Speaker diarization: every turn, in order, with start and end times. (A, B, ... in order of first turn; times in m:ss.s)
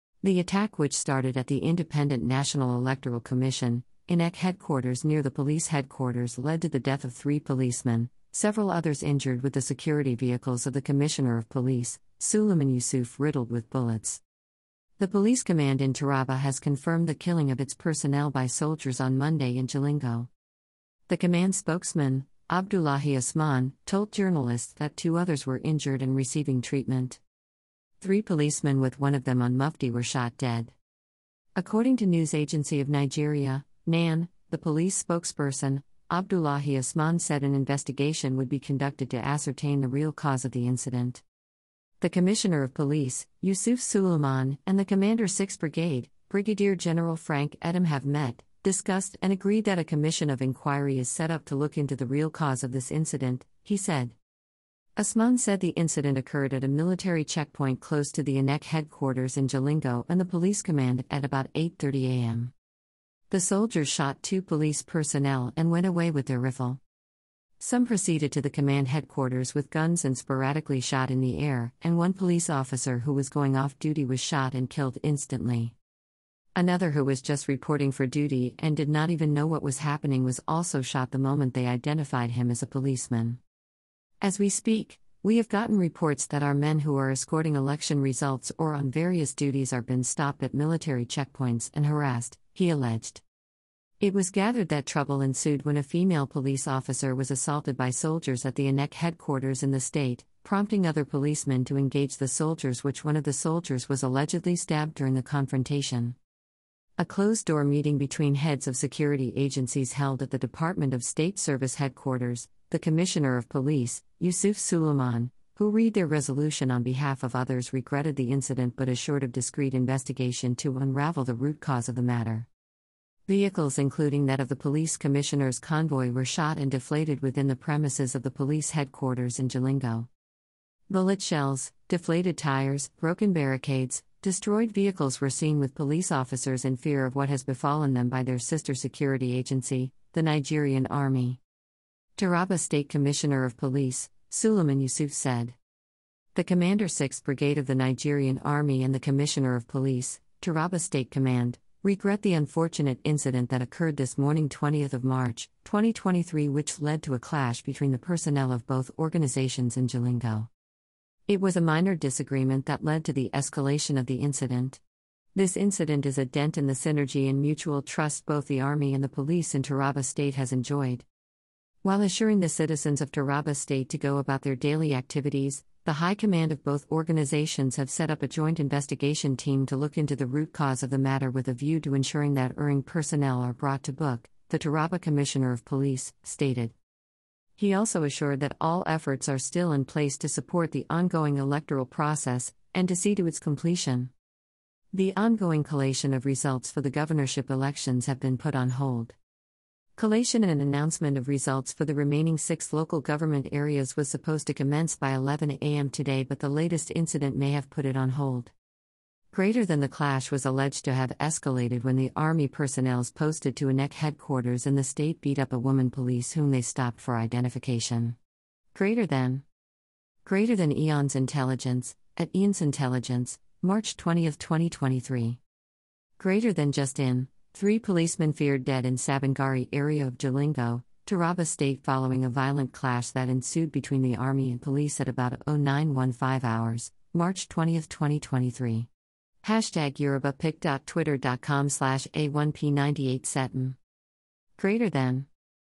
0:00.2-0:14.2 A
0:15.0-0:20.3 A
0:21.1-0:27.2 A
0:28.0-0:30.8 A
0:31.6-0:41.2 A
0:42.0-0:54.2 A
0:55.0-1:02.5 A
1:03.3-1:06.8 A
1:07.6-1:15.8 A
1:16.6-1:23.4 A
1:24.2-1:33.2 A
1:34.0-1:46.2 A
1:47.0-2:02.5 A
2:03.3-2:10.1 A
2:10.9-2:21.4 A
2:22.2-2:25.6 A
2:26.4-2:40.5 A
2:41.3-2:44.8 A
2:45.4-2:51.1 A
2:51.8-3:06.8 A
3:07.6-3:14.1 A
3:14.9-3:19.2 A
3:20.0-3:28.5 A
3:29.3-3:38.2 A
3:38.7-3:39.4 A
3:40.2-3:45.4 A
3:46.2-3:58.9 A
3:59.4-4:03.8 A
4:04.6-4:05.3 A